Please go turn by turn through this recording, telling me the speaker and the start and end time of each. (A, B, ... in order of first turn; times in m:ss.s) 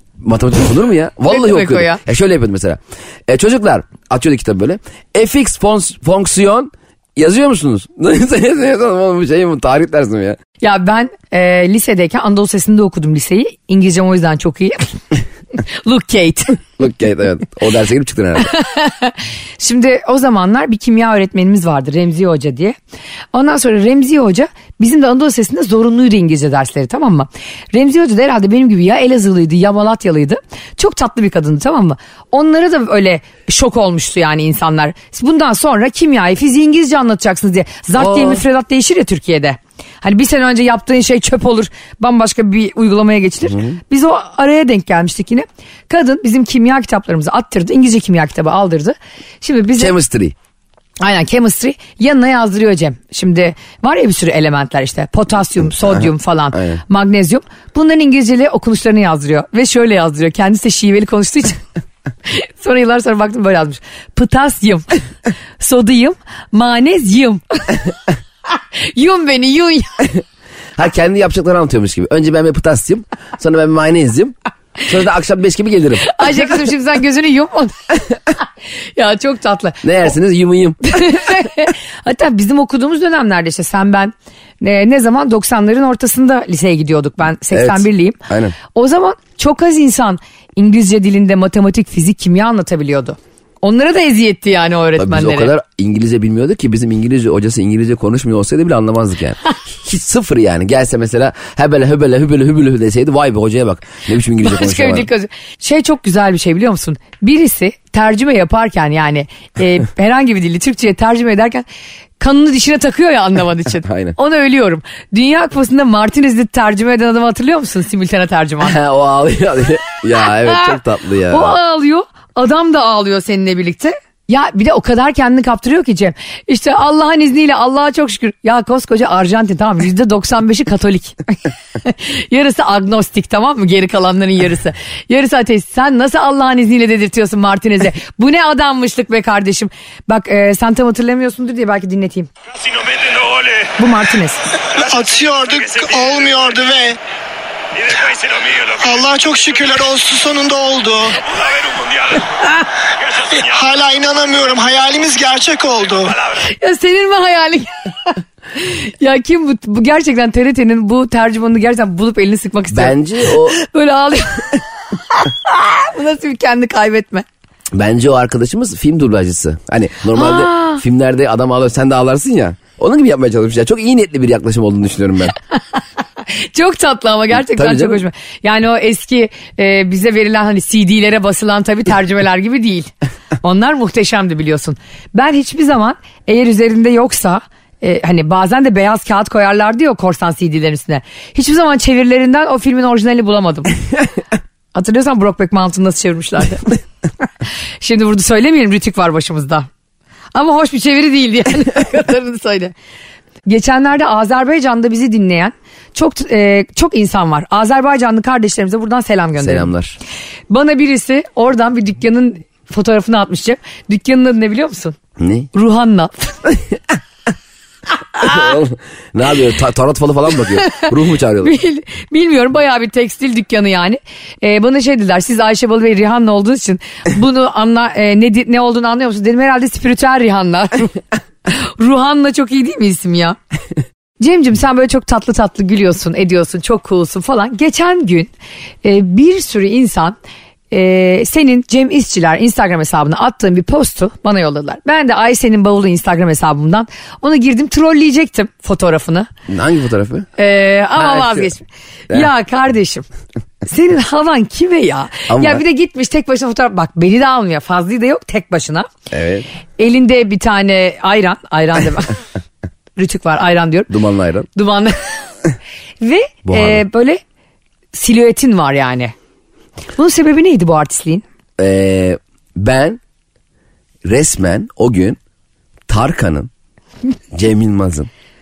0:00.2-0:10.4 A
0:01.3-0:02.0 B
0:10.6-0:15.0 B
0:15.8-0:16.6 B
0:16.8-0:18.5 A
0:18.4-0:22.8 B
0:23.3-0:50.0 B
0:38.0-0:38.4 A
0:49.8-0:50.4 A
0:51.0-1:01.6 B
0:56.5-0:56.8 A
1:02.3-1:04.9 B
1:05.6-1:07.8 B
1:08.8-1:10.1 B
1:10.8-1:16.4 A
1:16.0-1:17.8 B
1:19.0-1:19.9 B
1:19.8-1:21.2 A
1:20.9-1:35.5 B
1:27.5-1:28.6 A
1:35.0-1:45.1 A
1:44.4-1:51.6 B
1:52.2-1:58.8 B
1:53.8-1:54.2 A
1:58.6-2:01.6 A
2:00.5-2:00.7 B
2:01.3-2:22.3 B
2:23.0-2:23.4 C
2:23.8-2:24.4 B
2:24.8-2:27.0 C
2:27.8-2:32.2 C
2:33.2-2:36.2 C
2:36.4-2:47.2 B
2:42.7-2:43.6 A
2:47.7-2:55.4 A
2:50.1-2:50.8 B
2:55.6-3:02.9 B
2:57.3-2:58.0 A
3:03.4-3:13.8 B
3:14.7-3:16.8 B
3:17.8-3:19.7 B
3:20.3-3:22.7 B
3:23.5-3:29.7 B
3:29.4-3:30.0 A
3:30.5-3:35.0 B
3:35.2-3:35.5 A
3:35.5-3:36.4 B
3:38.2-3:41.6 A
3:41.4-3:50.9 B
3:51.5-3:53.4 B
3:54.2-3:58.3 B
3:58.8-4:00.2 B
4:00.7-4:09.3 B
4:09.5-4:10.3 A
4:10.4-4:13.0 B
4:11.0-4:11.5 A
4:13.6-4:18.9 B
4:15.3-4:15.6 A
4:19.1-4:19.5 A
4:19.8-4:22.2 B
4:23.0-4:23.9 B
4:23.9-4:24.5 A
4:24.6-4:25.2 B
4:26.0-4:27.2 B
4:26.4-4:26.8 A
4:27.9-4:29.1 B
4:30.0-4:31.2 B
4:31.6-4:33.0 A
4:34.0-4:35.2 A
4:35.9-4:36.5 A
4:37.3-4:38.1 A